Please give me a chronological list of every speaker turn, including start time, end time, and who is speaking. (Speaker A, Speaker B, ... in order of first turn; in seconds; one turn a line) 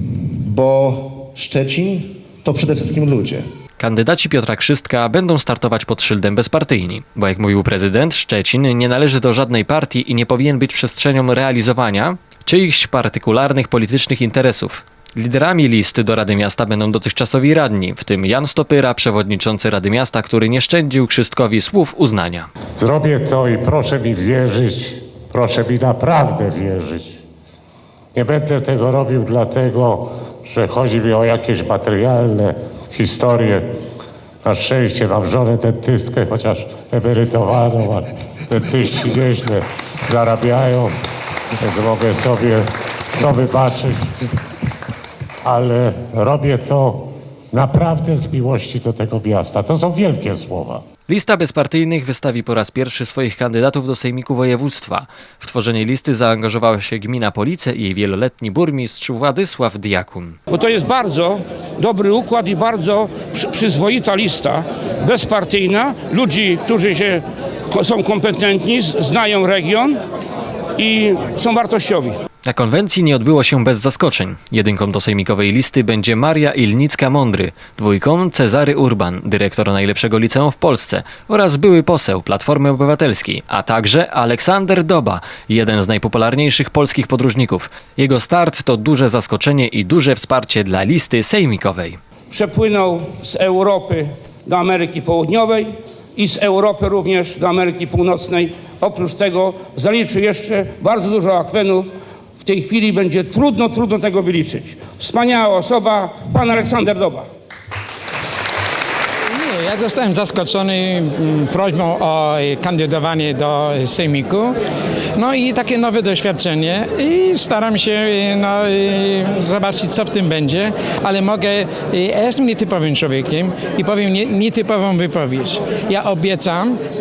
Speaker A: 0.3-3.5
Speaker B: 3.8-22.5
Speaker C: 22.8-27.2
Speaker C: 28.1-33.6
Speaker C: 34.4-40.9
Speaker C: 41.6-44.1
Speaker C: 45.4-50.8
Speaker B: 51.1-60.4
Speaker D: 60.5-70.0
Speaker D: 70.8-72.2
Speaker B: 72.4-92.0
Speaker D: 92.3-107.3
Speaker E: 109.3-114.5
Speaker E: 115.1-126.8